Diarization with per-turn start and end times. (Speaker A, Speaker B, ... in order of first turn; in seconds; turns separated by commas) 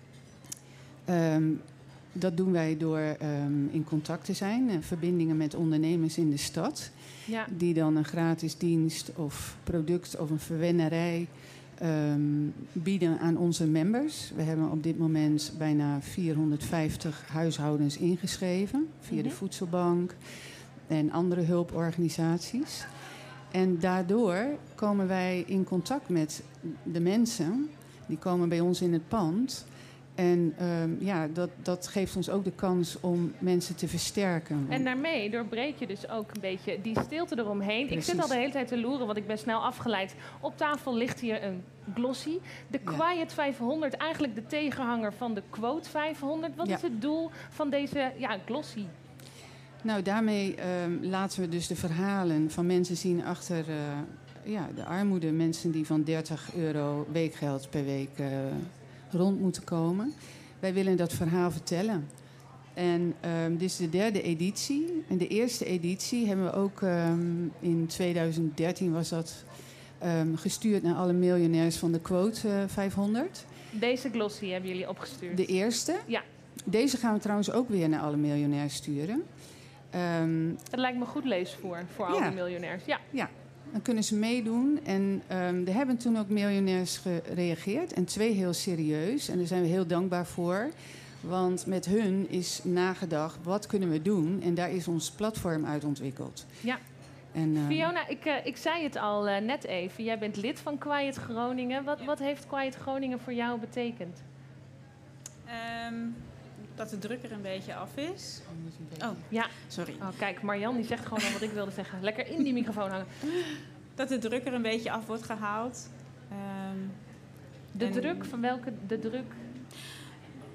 Speaker A: 1.1-20.2, Speaker B: 19.1-19.4, Speaker A: 20.9-22.9, Speaker A: 23.5-34.9, Speaker B: 34.7-48.9, Speaker A: 37.9-38.4, Speaker A: 49.8-62.1, Speaker A: 62.8-73.5, Speaker B: 73.7-75.5, Speaker A: 75.3-76.1, Speaker A: 76.7-79.2, Speaker A: 79.9-80.6, Speaker B: 80.7-83.0, Speaker A: 82.1-82.4, Speaker A: 83.0-96.6, Speaker A: 97.3-97.9, Speaker B: 97.5-104.2, Speaker C: 105.5-108.4, Speaker A: 108.5-109.3, Speaker C: 109.0-110.1, Speaker B: 109.3-113.1, Speaker C: 114.0-117.0, Speaker B: 117.7-119.4, Speaker C: 117.8-118.3